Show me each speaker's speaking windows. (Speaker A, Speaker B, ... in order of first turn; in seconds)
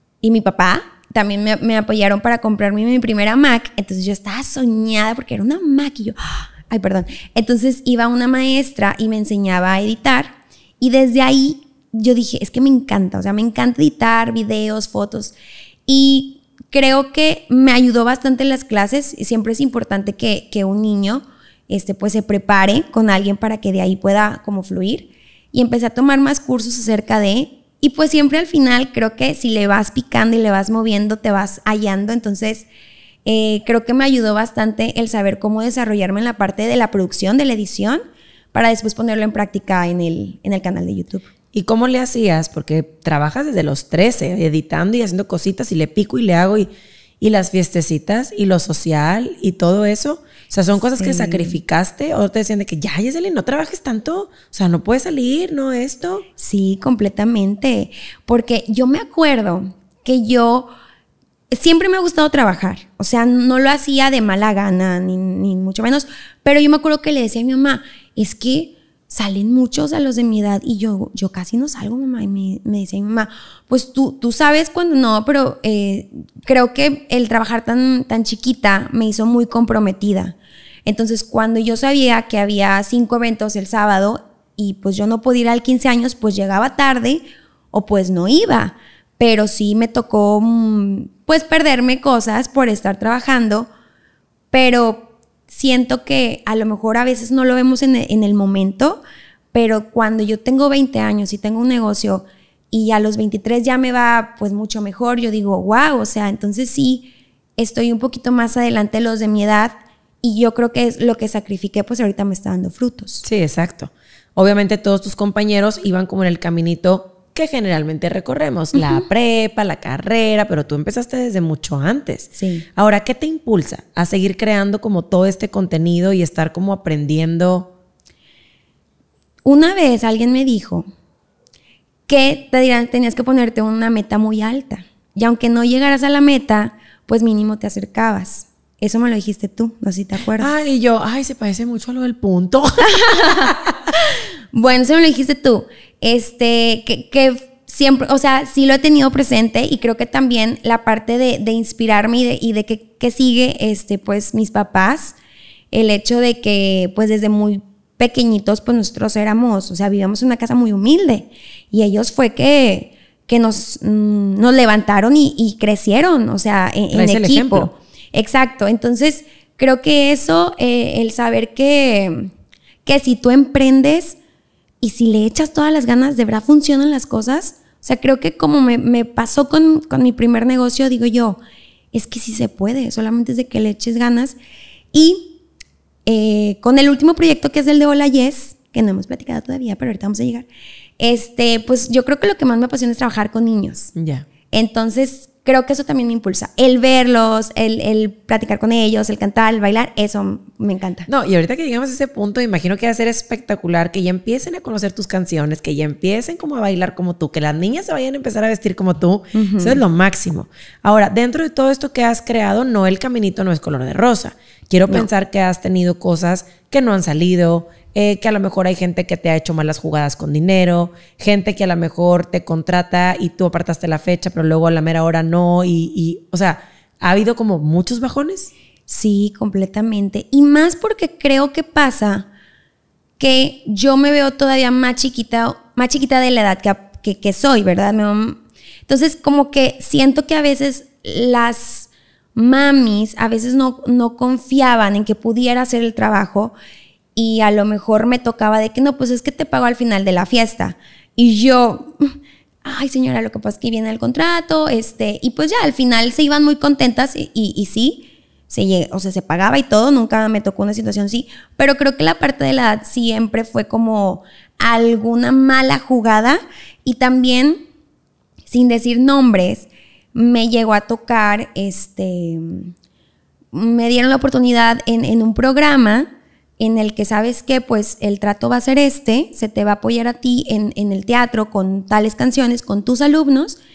Speaker A: 0.2-15.3, 15.9-32.7, 33.3-38.0, 38.5-41.3, 51.0-51.6, 56.4-60.7, 61.5-93.7, 94.5-99.0, 99.5-113.2, 118.7-119.0, 122.4-122.7, 129.5-130.9, 132.1-140.5, 142.8-155.2, 155.7-172.3, 172.8-174.2, 174.8-181.4, 181.9-184.4, 184.9-185.4, 186.1-190.5, 191.0-193.9, 194.5-201.1, 209.3-209.8, 228.9-232.3, 233.2-246.5, 247.2-267.6, 268.5-272.7, 273.5-276.1, 276.6-283.6
Speaker B: 41.5-46.7, 47.2-56.2, 113.2-127.7, 140.4-143.7, 166.9-167.7, 193.9-194.3, 201.1-228.5